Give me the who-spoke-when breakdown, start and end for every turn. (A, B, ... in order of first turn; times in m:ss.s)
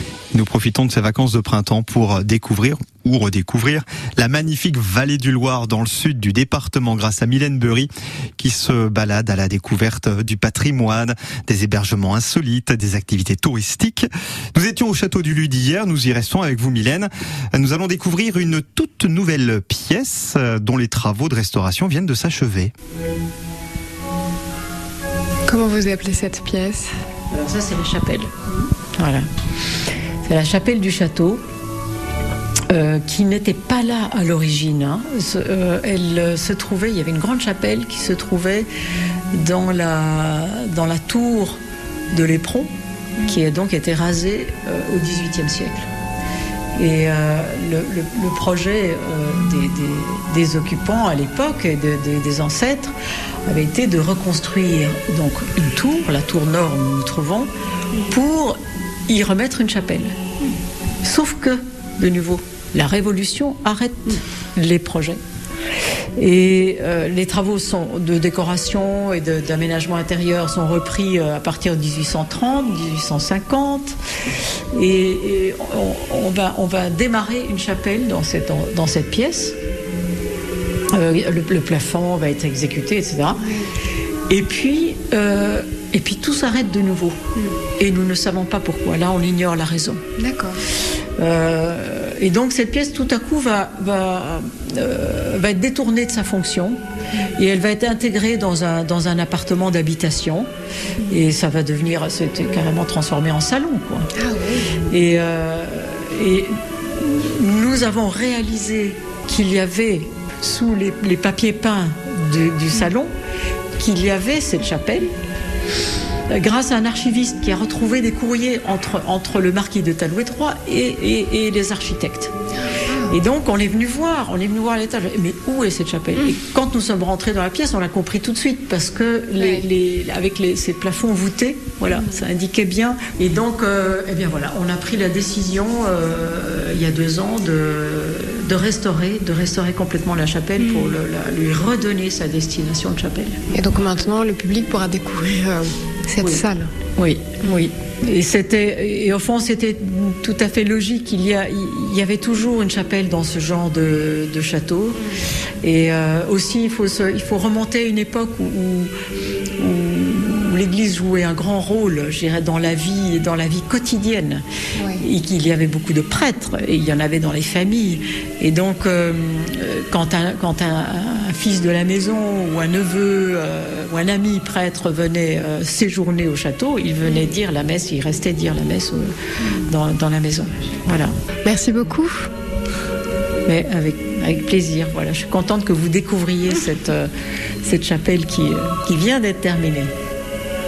0:00.3-0:22.7 A
0:25.5-0:26.9 B
0:27.3-0:28.3 C
0:29.0-0:29.3 C
0:30.2-0:31.4 C
0:32.7-0:38.7 C
0:39.3-0:41.6 C
0:42.1-0:42.7 C
0:43.2-0:45.9 C
0:46.8-0:52.9 C
0:53.5-0:57.5 C
0:58.1-1:00.2 C
1:01.0-1:05.2 C
1:06.2-1:14.0 C
1:14.7-1:19.6 C
1:20.9-1:23.5 C
1:23.4-1:23.7 B
1:24.3-1:27.2 C
1:27.8-1:30.0 C
1:30.2-1:30.6 B
1:31.2-1:36.8 C
1:37.3-1:40.5 C
1:41.1-1:44.1 C
1:44.2-1:44.8 B
1:44.9-1:53.1 C
1:53.8-1:55.1 C
1:56.3-2:02.3 C
2:02.7-2:03.2 B
2:03.1-2:23.4 C
2:09.4-2:09.6 B
2:11.9-2:12.2 B
2:20.6-2:21.0 B
2:23.5-2:26.7 B
2:26.2-2:26.4 C
2:27.0-2:35.0 C
2:35.6-2:38.9 C
2:39.6-2:44.4 C
2:44.8-2:45.0 B
2:45.0-2:59.1 C
2:59.7-3:01.1 C
3:01.4-3:02.2 B
3:03.5-3:07.1 C
3:07.6-3:09.9 C